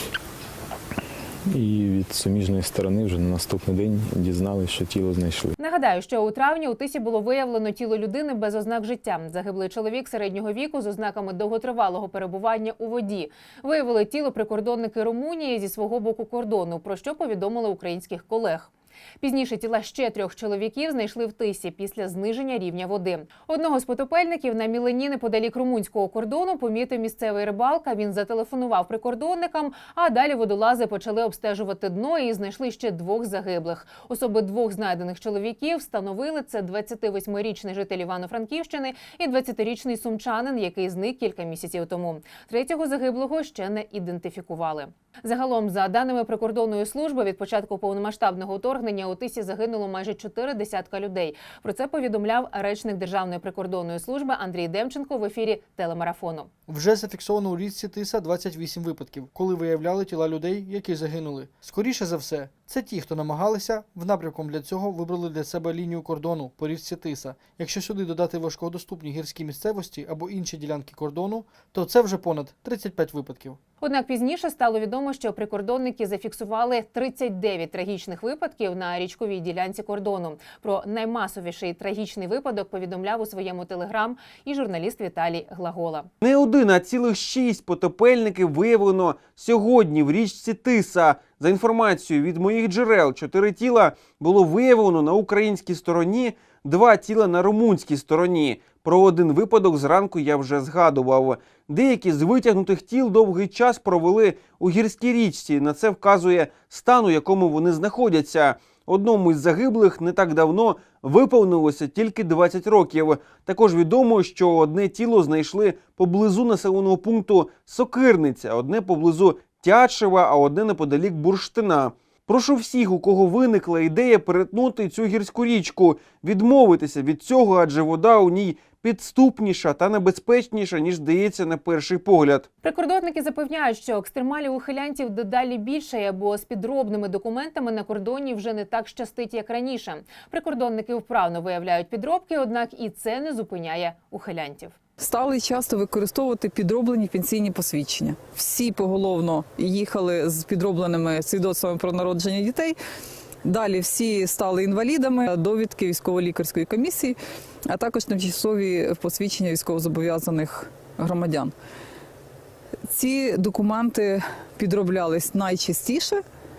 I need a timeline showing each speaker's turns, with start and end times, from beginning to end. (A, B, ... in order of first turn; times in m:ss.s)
0:01.5-0:05.6 A
0:05.6-0:56.5 B
0:56.7-1:13.6 C
1:13.8-1:26.1 B
1:26.2-2:12.5 D
2:12.6-2:24.8 B
2:25.0-2:32.8 E
2:33.4-2:37.2 E
2:37.7-2:41.5 E
2:42.9-2:46.2 E